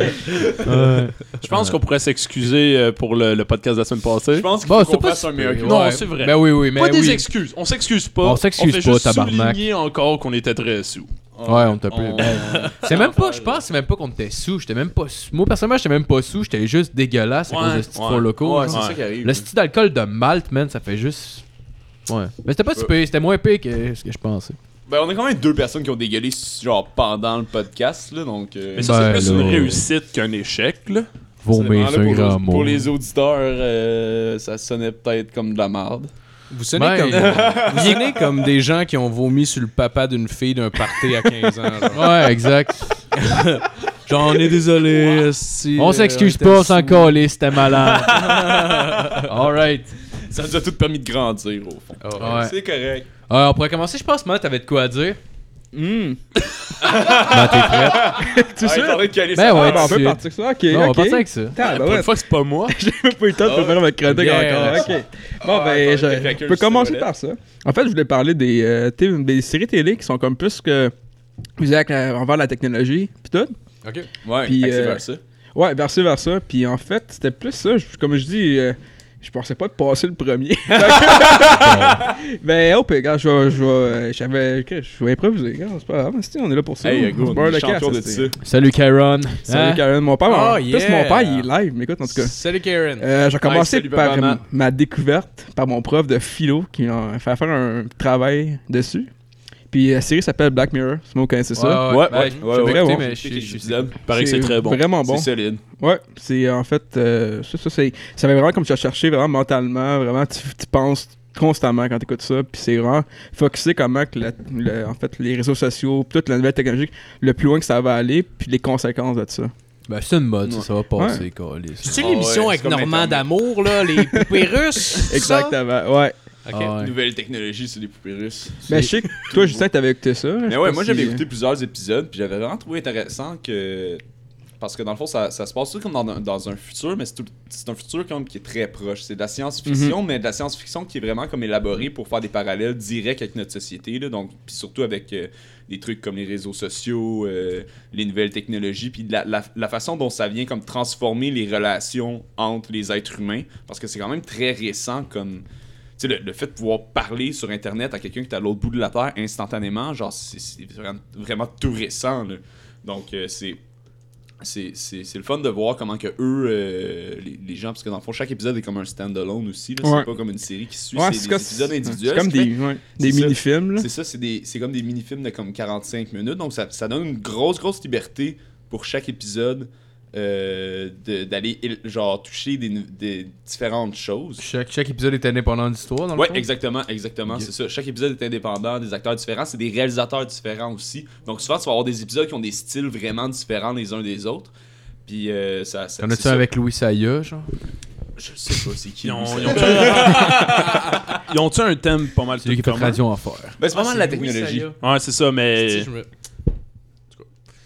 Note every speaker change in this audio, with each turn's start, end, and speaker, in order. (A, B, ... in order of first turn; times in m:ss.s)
0:00.1-0:00.8 A
0:00.6-0:01.8 B
0:01.4-0:04.5 C
0:04.3-0:06.1 A
0:04.6-0:07.3 B
0:05.6-0:11.1 C
0:08.2-0:09.6 B
0:11.3-0:13.6 A
0:11.4-0:21.4 B
0:12.2-0:12.7 D
0:17.5-0:19.0 C
0:18.4-0:19.5 A
0:22.1-0:24.6 B
0:24.9-0:29.8 A
0:28.8-0:31.1 C
0:28.8-0:29.8 B
0:31.4-0:32.9 B
0:31.5-0:36.1 A
0:36.5-0:42.1 D
0:36.8-0:37.5 B
0:37.1-0:38.4 A
0:41.9-0:43.0 B
0:43.1-0:47.2 D
0:45.8-0:48.5 B
0:47.7-0:49.2 A
0:48.2-0:49.2 D
0:49.1-0:49.9 B
0:50.3-0:53.1 A
0:52.0-0:52.4 D
0:52.2-0:52.6 B
0:53.3-0:55.2 B
0:55.7-0:56.2 E
0:56.8-1:00.1 A
0:57.2-0:58.1 B
0:58.1-1:02.1 E
0:59.4-1:01.6 B
1:01.6-1:02.7 C
1:02.7-1:10.9 E
1:03.4-1:03.9 A
1:04.1-1:04.9 B
1:04.2-1:04.7 D
1:05.4-1:07.1 A
1:11.6-1:13.6 E
1:14.2-1:15.2 A
1:14.4-1:15.0 E
1:15.6-1:28.3 E
1:21.5-1:22.0 B
1:26.8-1:28.4 A
1:28.4-1:29.8 B
1:29.4-1:32.4 E
1:30.2-1:31.5 D
1:32.0-1:33.1 D
1:33.0-1:39.1 E
1:33.4-1:34.4 A
1:39.7-1:43.1 E
1:41.5-1:43.8 B
1:41.8-1:44.0 A
1:42.1-1:42.4 D
1:44.1-1:44.8 C
1:44.1-1:59.5 E
1:45.0-1:45.6 A
1:59.9-2:02.1 B
2:00.4-2:00.7 A
2:01.0-2:01.2 E
2:01.8-2:05.5 D
2:01.8-2:03.3 A
2:04.1-2:06.1 E
2:06.5-2:06.8 D
2:06.5-2:06.9 B
2:06.8-2:09.7 A
2:08.7-2:11.2 E
2:10.4-2:14.0 A
2:14.6-2:35.4 A
2:19.7-2:20.0 E
2:36.0-2:43.6 A
2:44.4-3:04.4 A
2:49.8-2:50.1 E
2:50.9-2:53.9 E
3:04.4-3:06.5 B
3:06.1-3:14.5 A
3:15.1-3:16.5 A
3:16.0-3:17.5 B
3:18.2-3:21.0 A
3:19.0-3:23.0 C
3:22.4-3:23.6 B
3:23.6-3:24.7 A
3:23.7-3:24.8 D
3:24.8-3:25.9 C
3:25.6-3:26.1 D